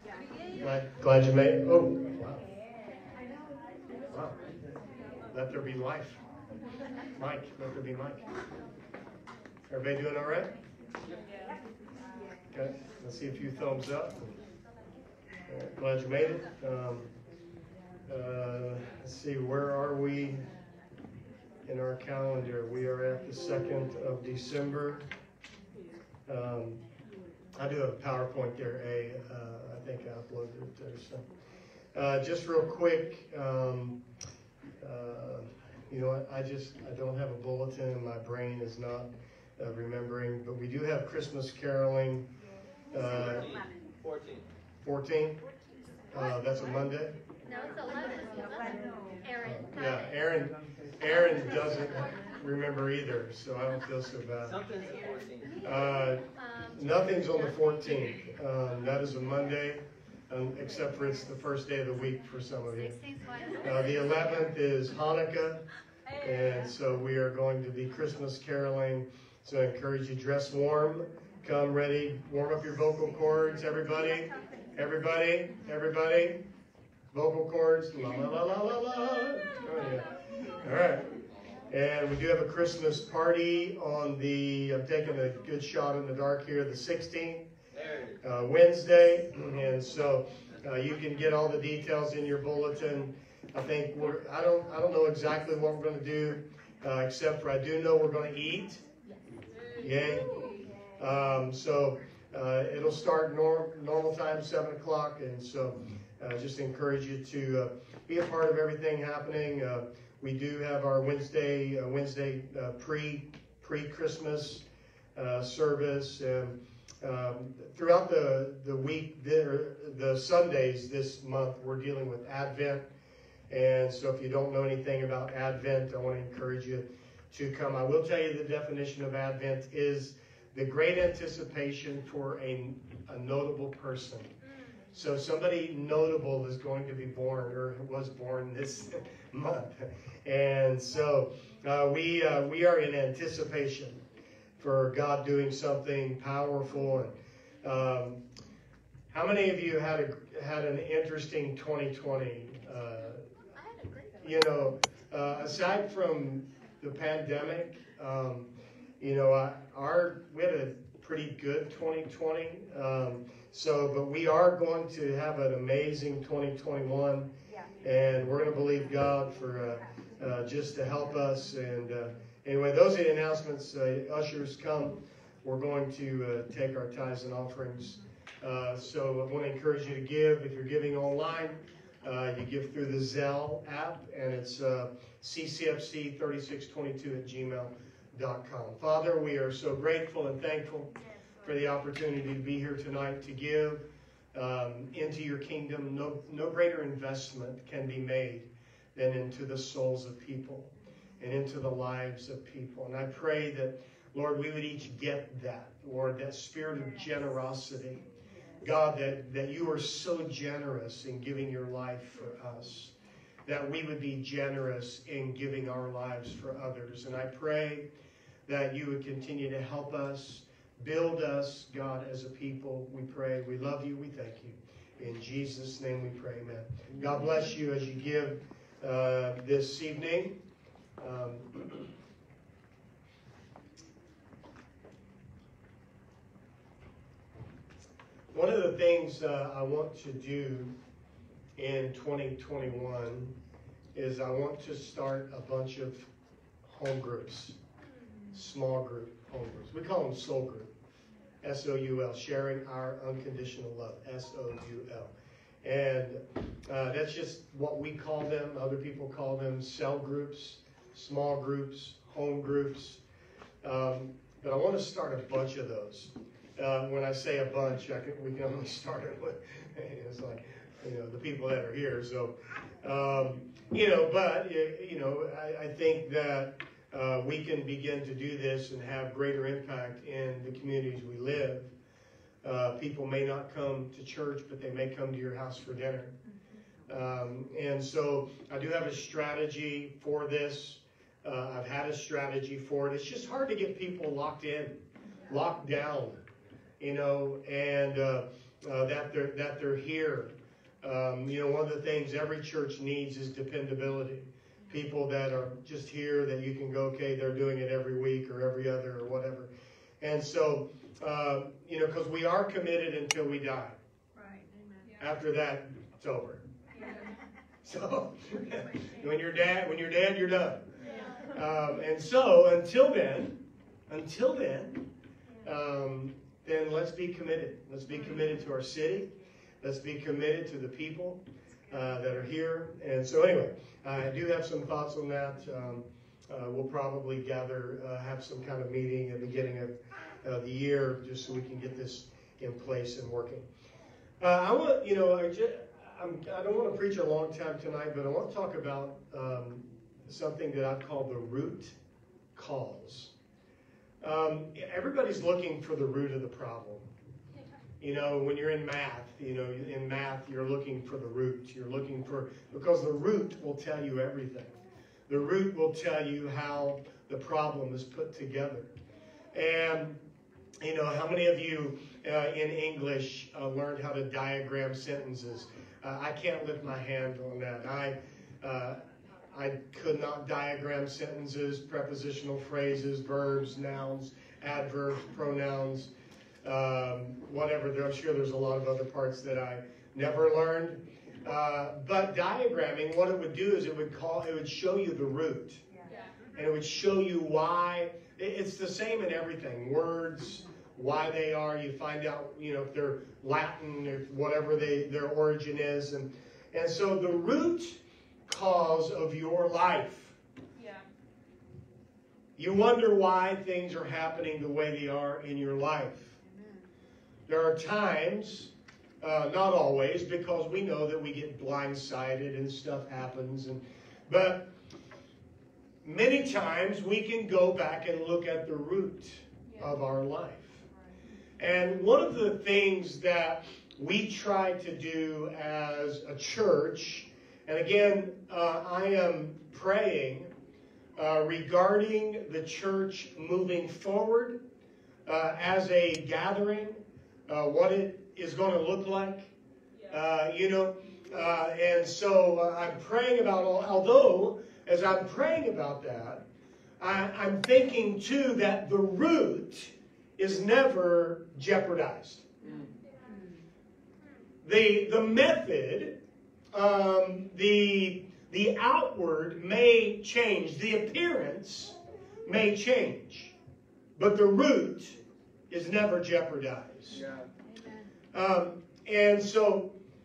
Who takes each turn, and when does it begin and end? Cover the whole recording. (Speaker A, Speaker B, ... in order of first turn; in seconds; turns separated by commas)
Speaker A: 0.6-2.4, Speaker A: 4.1-4.4, Speaker A: 5.3-6.2, Speaker A: 7.2-8.2, Speaker A: 9.7-10.5, Speaker A: 12.5-14.4, Speaker A: 15.5-17.1, Speaker A: 18.1-20.4, Speaker A: 21.6-25.0, Speaker A: 26.2-26.8, Speaker A: 27.5-31.2, Speaker A: 31.9-34.0, Speaker A: 34.8-42.3, Speaker A: 42.9-43.5, Speaker B: 43.1-44.5, Speaker A: 44.8-45.4, Speaker A: 46.1-47.1, Speaker C: 47.5-49.3, Speaker A: 49.4-54.6, Speaker B: 54.4-55.6, Speaker A: 55.6-63.0, Speaker A: 63.6-65.6, Speaker A: 66.2-76.4, Speaker A: 77.1-81.1, Speaker A: 81.7-87.5, Speaker B: 87.7-88.2, Speaker A: 88.2-98.8, Speaker A: 99.8-100.4, Speaker A: 101.0-122.8, Speaker A: 123.5-134.3, Speaker A: 134.9-144.0, Speaker A: 144.6-148.2, Speaker A: 149.1-153.2, Speaker C: 153.6-154.2, Speaker A: 154.2-167.3, Speaker A: 167.8-208.0, Speaker A: 208.6-212.9, Speaker A: 213.4-217.9, Speaker A: 218.5-230.3, Speaker B: 226.9-227.3, Speaker A: 231.0-231.9, Speaker A: 238.3-240.7, Speaker A: 241.6-243.3, Speaker A: 243.9-246.1, Speaker A: 246.6-247.6, Speaker A: 248.3-250.7, Speaker A: 251.4-263.0, Speaker A: 263.6-281.7, Speaker A: 282.4-286.1, Speaker A: 286.9-296.2, Speaker A: 296.8-313.8, Speaker D: 314.1-315.0, Speaker C: 314.5-315.1, Speaker A: 315.0-316.4, Speaker D: 316.7-317.1, Speaker A: 317.6-323.4, Speaker D: 320.8-321.3, Speaker A: 323.9-324.9, Speaker A: 325.4-343.5, Speaker A: 344.2-351.8, Speaker A: 352.3-353.1, Speaker A: 354.0-356.9, Speaker A: 357.8-364.5, Speaker A: 365.1-368.7, Speaker A: 369.3-370.0, Speaker A: 370.6-385.9, Speaker A: 386.4-395.6, Speaker A: 396.3-410.1, Speaker D: 410.6-410.9, Speaker A: 412.4-416.1, Speaker C: 416.2-416.7, Speaker A: 417.3-424.5, Speaker A: 425.8-430.6, Speaker A: 431.4-440.3, Speaker A: 440.9-444.4, Speaker A: 445.1-449.3, Speaker A: 449.9-456.2, Speaker A: 456.8-462.2, Speaker B: 462.4-462.7, Speaker C: 463.0-463.4, Speaker A: 464.4-466.0, Speaker A: 466.5-473.3, Speaker A: 473.9-475.0, Speaker A: 475.5-477.0, Speaker B: 476.9-477.3, Speaker C: 477.4-477.9, Speaker A: 478.1-479.7